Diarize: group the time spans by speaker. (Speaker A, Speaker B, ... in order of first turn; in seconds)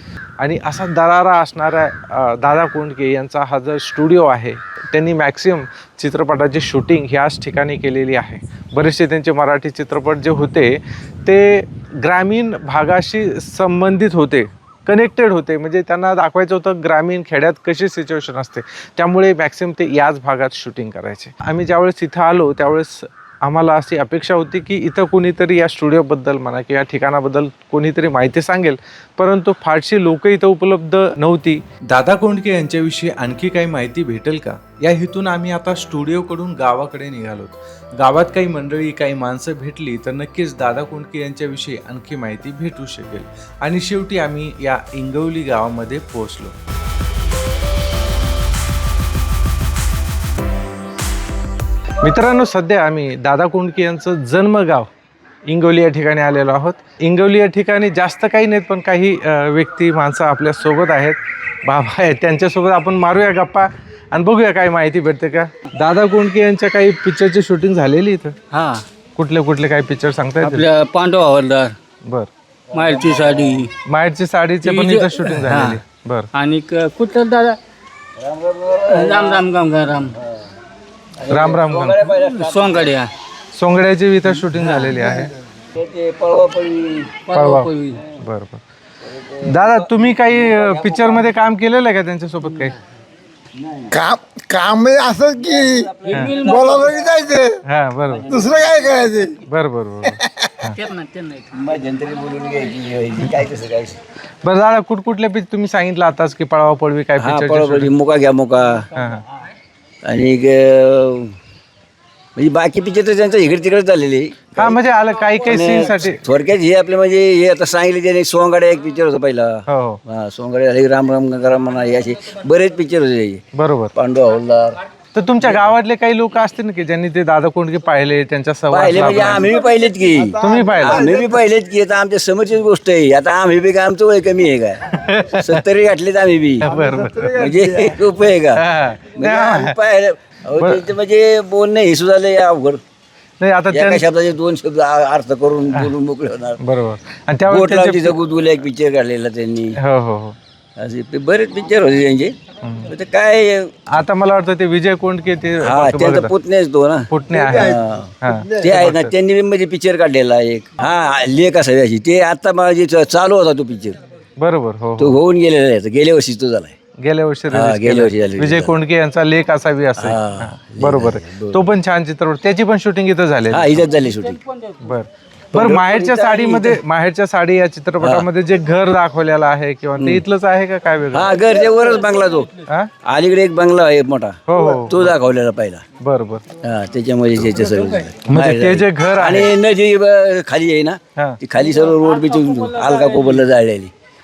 Speaker A: 0.4-46.5, 52.0-54.9, 55.5-68.3, 69.2-70.7, 73.8-76.3, 81.3-82.1, 83.5-85.3, 87.3-88.6, 89.4-92.8, 96.1-96.4, 97.6-98.3, 99.4-100.8, 104.4-107.9, 108.9-109.2, 114.6-116.2, 119.7-120.0, 123.5-123.9, 125.1-129.5, 130.4-131.1, 134.9-135.6, 136.6-137.5, 138.6-139.8, 140.6-140.9, 143.4-144.1, 146.6-148.2, 149.8-150.4, 152.6-152.9, 153.9-156.3, 157.1-159.1, 164.4-165.2, 167.0-173.9, 174.8-181.4, 182.7-182.9, 184.5-185.1, 186.0-186.5, 188.2-189.5
Speaker B: 68.5-68.8, 70.4-71.8, 72.7-73.7, 74.6-75.8, 76.3-77.6, 78.9-80.2, 82.1-83.1, 84.5-85.1, 87.3-88.0, 96.1-97.1, 100.7-101.5, 174.3-174.7, 191.8-193.4
Speaker C: 72.7-73.7, 78.2-79.5, 80.1-80.5, 81.2-83.0, 85.7-87.2, 89.0-91.3, 93.6-94.0, 95.3-97.5, 98.1-99.3, 101.5-104.0, 107.2-108.9, 110.0-111.4, 112.4-114.8, 115.4-124.8, 125.4-125.7, 128.7-136.6, 137.3-142.8, 143.7-146.6, 147.5-149.8, 150.8-153.7, 155.6-164.0, 165.0-166.8, 167.5-168.8, 170.0-171.6, 173.5-174.4, 175.5-176.8, 178.0-178.3, 180.0-180.2, 181.1-182.5, 183.0-185.8, 186.5-193.9
Speaker D: 93.9-95.8, 96.5-97.6, 98.3-99.4, 100.2-100.5, 129.7-131.4, 136.7-137.6